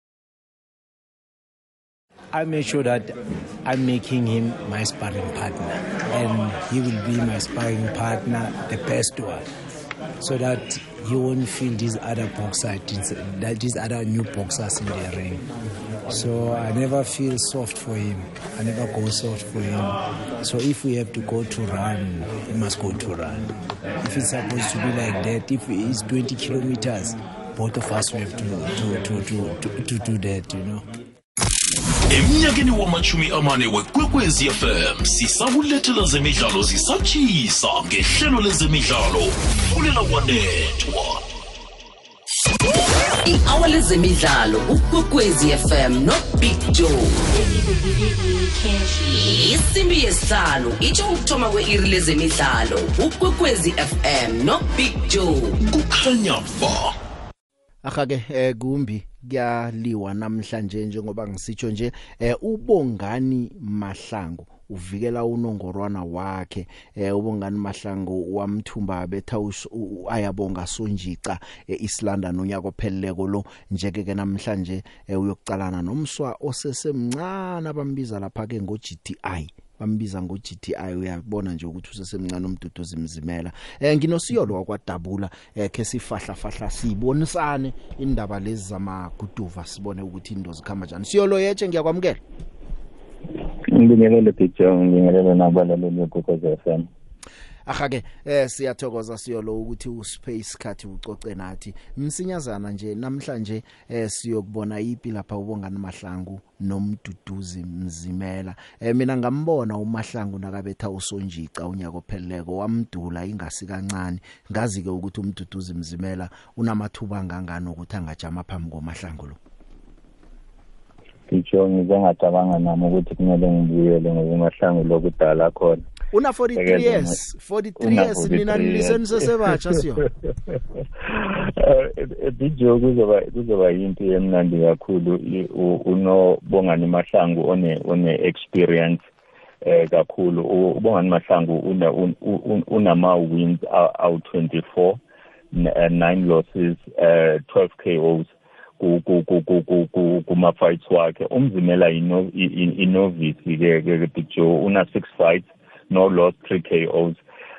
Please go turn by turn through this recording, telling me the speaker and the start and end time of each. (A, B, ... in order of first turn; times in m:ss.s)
0:02.3-0:09.4 A
0:10.2-0:15.4 A
0:16.1-0:30.8 A
0:32.1-0:41.2 B
0:43.2-0:55.6 C
0:55.6-0:56.9 B
0:57.8-1:32.2 D
1:33.6-1:36.9 E
1:37.7-1:59.4 D
2:01.3-2:05.8 E
2:06.1-2:10.0 D
2:06.6-2:07.2 E
2:07.8-2:09.0 E
2:10.5-2:19.0 E
2:19.6-2:25.0 E
2:25.5-2:37.2 E